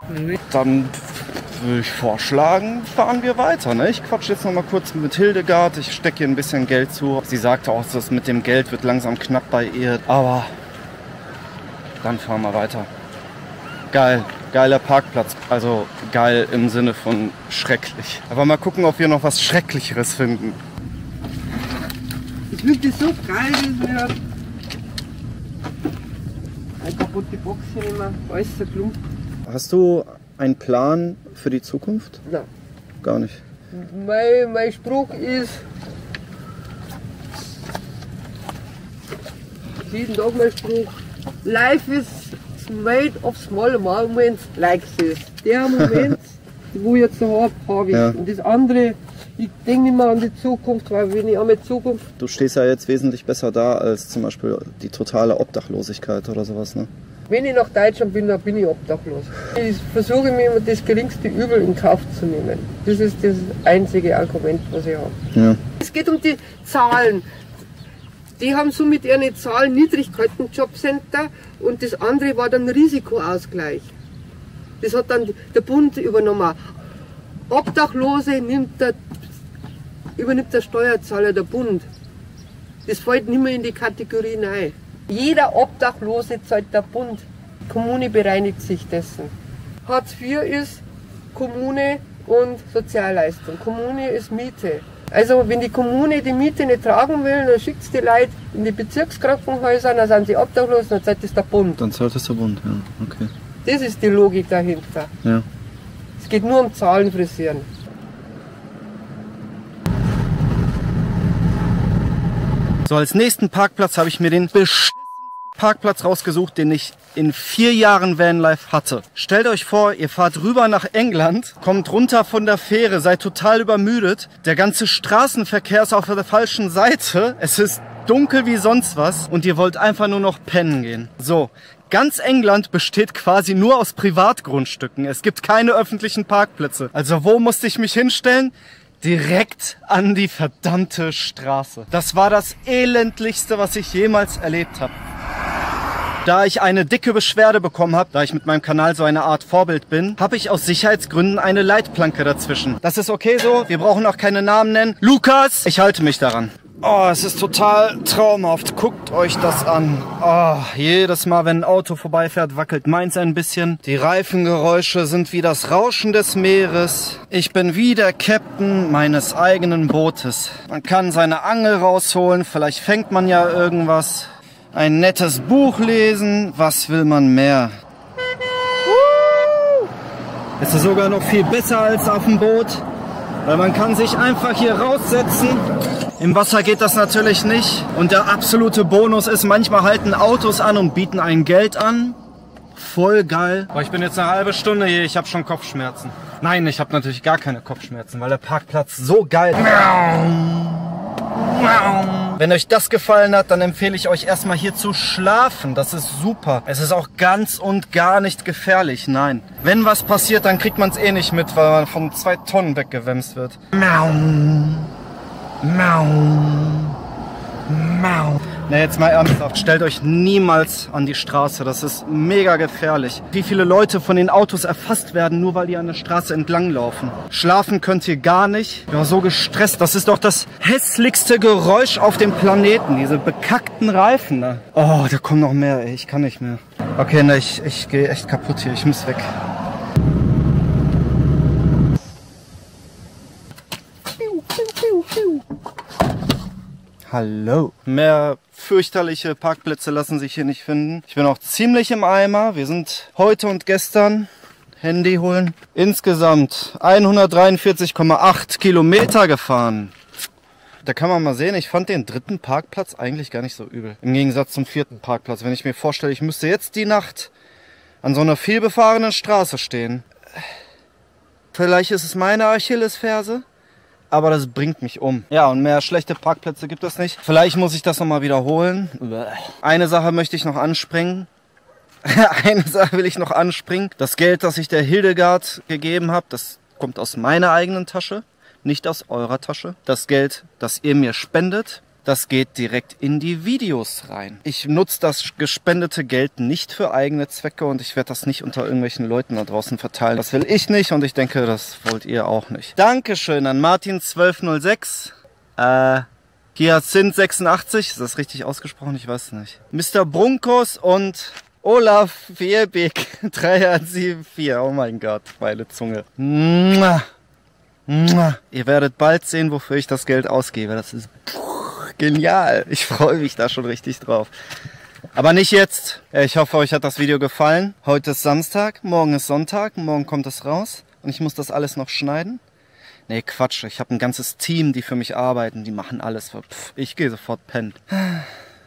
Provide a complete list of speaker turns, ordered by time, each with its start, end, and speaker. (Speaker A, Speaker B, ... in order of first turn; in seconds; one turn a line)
Speaker A: 0.3-10.5
Speaker A: 12.0-12.9
Speaker A: 13.9-20.6
Speaker B: 22.5-24.2
Speaker B: 26.8-29.0
Speaker A: 29.4-32.2
Speaker A: 33.0-33.4
Speaker B: 33.7-35.6
Speaker B: 39.8-52.0
Speaker A: 47.9-48.2
Speaker A: 52.2-56.9
Speaker B: 57.3-65.2
Speaker A: 65.3-65.6
Speaker B: 65.8-67.2
Speaker B: 68.4-73.9
Speaker B: 74.8-76.7
Speaker B: 77.5-79.0
Speaker B: 80.2-81.9
Speaker B: 82.9-89.3
Speaker B: 89.8-90.8
Speaker B: 91.3-101.8
Speaker A: 101.8-103.3
Speaker B: 103.6-105.1
Speaker B: 106.2-107.7
Speaker A: 112.8-144.9
Speaker A: 146.2-177.7
Speaker A: 178.9-179.9
Speaker A: 180.6-182.8
Speaker A: 183.4-185.6
Speaker A: 186.2-192.2
Speaker A: 192.7-214.9
Speaker A: 215.6-217.0
Speaker A: 217.7-239.3
Speaker B: 244.5-245.0
Speaker A: 247.1-254.3
Speaker A: 254.8-259.9
Speaker A: 260.8-267.3
Speaker A: 268.0-270.1
Speaker A: 271.5-273.4
Speaker A: 274.1-281.3
Speaker A: 282.0-317.0
Speaker A: 317.9-324.3
Speaker A: 325.1-332.4
Speaker A: 333.1-338.3